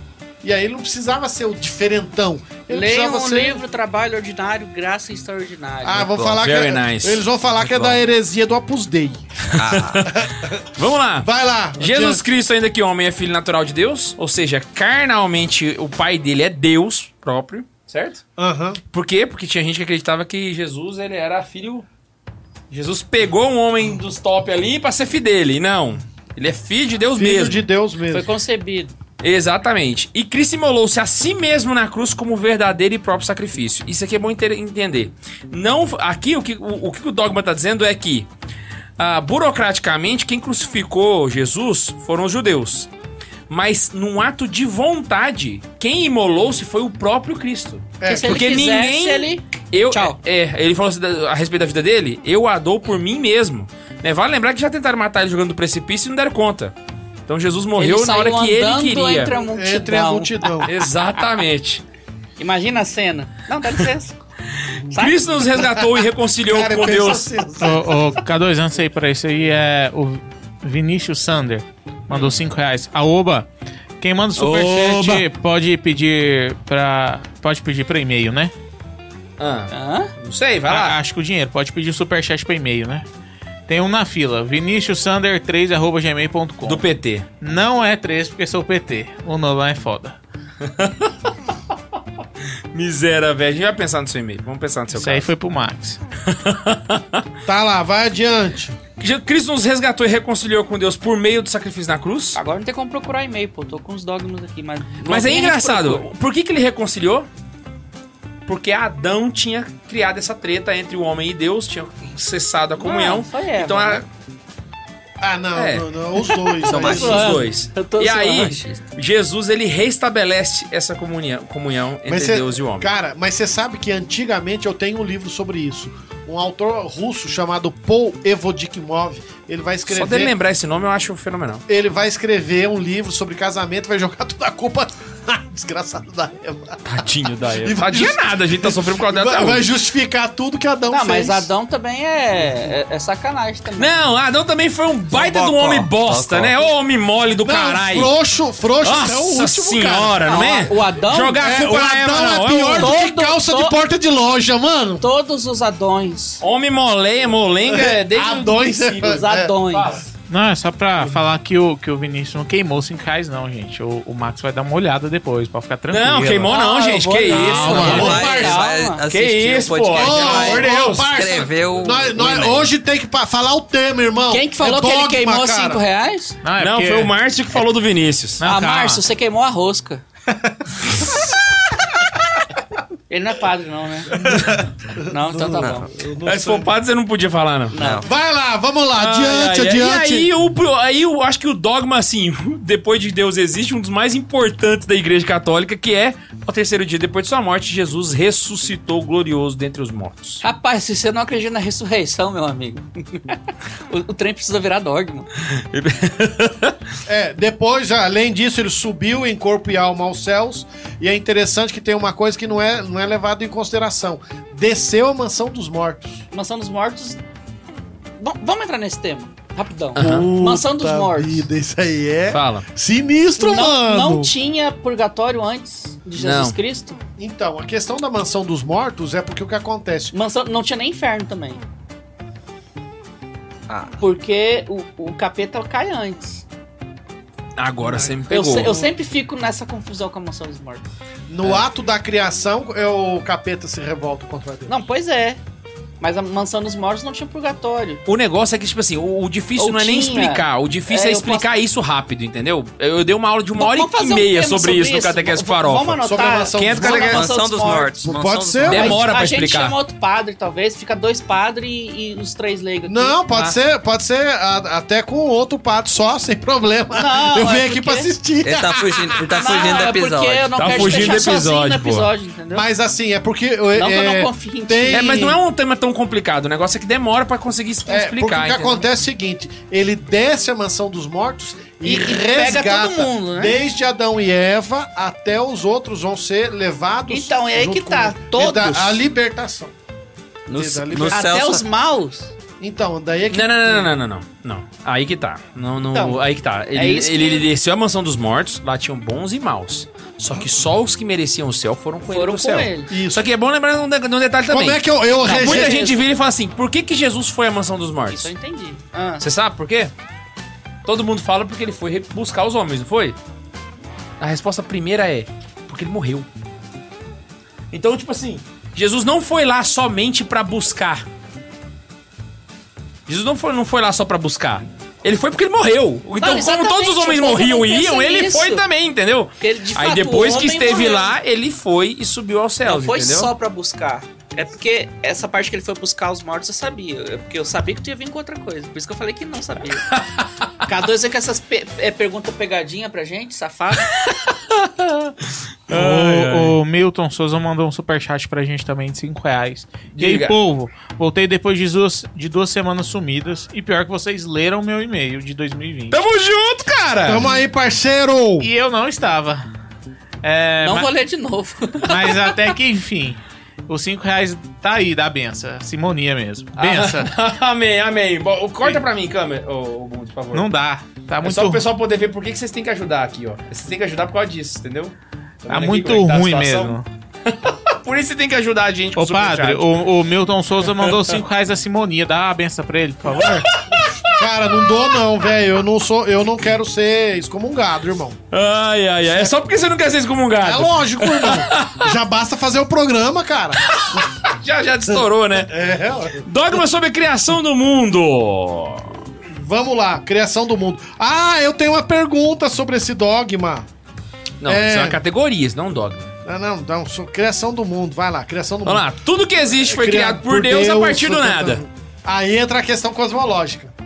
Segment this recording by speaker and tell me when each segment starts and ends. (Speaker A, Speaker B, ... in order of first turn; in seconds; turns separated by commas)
Speaker A: 0.4-3.6, Speaker B: 2.7-6.2, Speaker A: 5.8-10.7, Speaker C: 6.1-6.4, Speaker D: 6.4-7.2, Speaker C: 7.6-8.0, Speaker C: 9.5-10.1, Speaker D: 9.5-18.2, Speaker A: 11.2-12.2, Speaker A: 18.4-18.8, Speaker D: 18.9-21.9, Speaker D: 22.7-27.6, Speaker A: 27.1-28.3, Speaker B: 28.1-28.9, Speaker D: 29.2-38.3, Speaker D: 39.0-42.9, Speaker D: 43.5-56.7, Speaker A: 48.0-48.5, Speaker B: 48.1-50.2, Speaker D: 57.3-59.3, Speaker B: 57.8-60.7, Speaker A: 59.4-60.7, Speaker D: 60.7-61.8, Speaker B: 62.4-64.2, Speaker D: 64.8-67.3, Speaker B: 64.9-65.7, Speaker A: 65.6-65.9, Speaker A: 66.4-68.1, Speaker E: 67.6-73.5, Speaker D: 72.1-72.4, Speaker E: 74.0-78.5, Speaker D: 74.4-75.3, Speaker D: 79.4-81.0, Speaker B: 79.7-80.1, Speaker E: 80.7-83.1, Speaker E: 83.7-86.8, Speaker D: 86.7-87.3, Speaker E: 87.4-90.2, Speaker D: 90.6-91.1, Speaker D: 92.7-95.3, Speaker E: 94.9-96.0, Speaker D: 96.3-97.2, Speaker A: 97.5-98.8, Speaker D: 99.0-102.4, Speaker B: 102.3-106.0, Speaker D: 105.1-107.3, Speaker D: 108.5-114.1, Speaker B: 112.8-114.0, Speaker A: 115.2-117.4, Speaker D: 115.5-115.8, Speaker B: 116.6-118.8, Speaker C: 116.6-117.4, Speaker D: 116.7-122.9, Speaker A: 122.1-130.3, Speaker D: 129.9-131.6, Speaker A: 131.7-137.0, Speaker D: 136.8-139.7, Speaker A: 137.6-141.5, Speaker B: 140.9-143.9, Speaker D: 143.8-148.1, Speaker C: 145.1-146.7, Speaker A: 147.4-150.3, Speaker D: 148.8-153.0, Speaker B: 150.2-151.4, Speaker A: 151.4-155.0, Speaker B: 152.8-153.8, Speaker B: 155.0-156.4, Speaker D: 156.4-160.1, Speaker A: 157.7-159.6, Speaker B: 159.0-160.0, Speaker E: 160.3-166.6, Speaker D: 165.9-171.5, Speaker B: 166.5-169.0, Speaker A: 167.3-168.6, Speaker E: 167.3-168.2, Speaker C: 167.7-172.7, Speaker A: 169.9-175.8, Speaker B: 174.3-176.4, Speaker E: 176.4-177.1, Speaker D: 176.6-178.4, Speaker E: 178.4-179.0, Speaker B: 178.4-180.0, Speaker B: 183.1-184.2, Speaker A: 184.1-186.7, Speaker D: 184.2-184.6, Speaker B: 185.0-185.9, Speaker D: 186.2-187.8, Speaker B: 187.7-188.1, Speaker C: 187.8-188.1, Speaker A: 188.0-190.3, Speaker D: 189.0-200.4, Speaker B: 200.4-203.4, Speaker B: 203.9-205.3, Speaker D: 205.5-206.8, Speaker A: 207.1-216.2, Speaker B: 216.3-217.2, Speaker B: 218.2-221.5, Speaker D: 220.0-220.3, Speaker A: 220.0-224.3, Speaker D: 222.3-222.7, Speaker B: 223.4-227.0, Speaker D: 226.2-226.6, Speaker A: 227.2-230.2, Speaker B: 230.1-231.6, Speaker C: 233.7-233.9, Speaker B: 234.0-236.4, Speaker D: 237.6-238.8, Speaker A: 237.8-238.9, Speaker B: 238.3-240.9, Speaker A: 241.3-244.8, Speaker B: 244.7-245.4, Speaker B: 246.0-248.0, Speaker D: 248.1-256.0, Speaker B: 249.6-251.5, Speaker B: 253.6-258.0, Speaker A: 256.0-257.2, Speaker D: 256.5-257.2, Speaker C: 256.9-258.9, Speaker A: 258.0-259.0, Speaker D: 258.6-259.8, Speaker B: 258.7-263.5, Speaker A: 262.9-269.9, Speaker B: 266.9-268.1, Speaker C: 268.4-271.2, Speaker B: 269.3-272.7, Speaker D: 270.6-272.1, Speaker A: 272.5-275.4, Speaker B: 273.8-275.2, Speaker D: 274.9-278.9, Speaker A: 277.9-289.7, Speaker B: 281.8-283.6, Speaker B: 287.1-289.0, Speaker C: 290.5-291.6, Speaker A: 290.5-291.4, Speaker B: 291.1-292.3, Speaker A: 292.6-293.9, Speaker D: 293.3-308.3, Speaker A: 295.9-296.2, Speaker B: 296.8-297.5, Speaker B: 302.1-302.9, Speaker A: 302.9-303.3, Speaker A: 304.5-305.9, Speaker B: 305.2-306.0, Speaker B: 308.1-309.2, Speaker D: 309.2-309.9, Speaker D: 310.9-313.2, Speaker D: 314.2-316.3, Speaker D: 317.7-321.0, Speaker D: 323.1-333.3, Speaker B: 326.2-328.6, Speaker B: 329.4-331.1, Speaker B: 332.6-339.9, Speaker D: 339.9-340.3, Speaker B: 340.6-343.9, Speaker D: 345.7-346.6, Speaker E: 345.7-356.0, Speaker D: 349.9-350.4, Speaker D: 355.9-357.3, Speaker A: 357.1-358.5, Speaker E: 358.4-359.4, Speaker E: 360.2-360.9, Speaker B: 360.6-362.6, Speaker E: 361.9-367.1, Speaker D: 366.6-370.5, Speaker E: 370.3-371.6, Speaker D: 371.2-379.6, Speaker E: 375.5-376.9, Speaker E: 379.0-383.5, Speaker D: 380.7-381.2, Speaker D: 383.2-384.8, Speaker A: 384.1-388.2, Speaker D: 388.3-391.9, Speaker A: 390.4-394.1, Speaker D: 393.6-395.5, Speaker A: 394.9-396.3, Speaker D: 396.2-399.0, Speaker A: 399.3-403.7, Speaker D: 404.4-406.1, Speaker A: 404.4-405.0, Speaker A: 406.2-408.9, Speaker D: 408.6-411.6, Speaker A: 409.6-413.7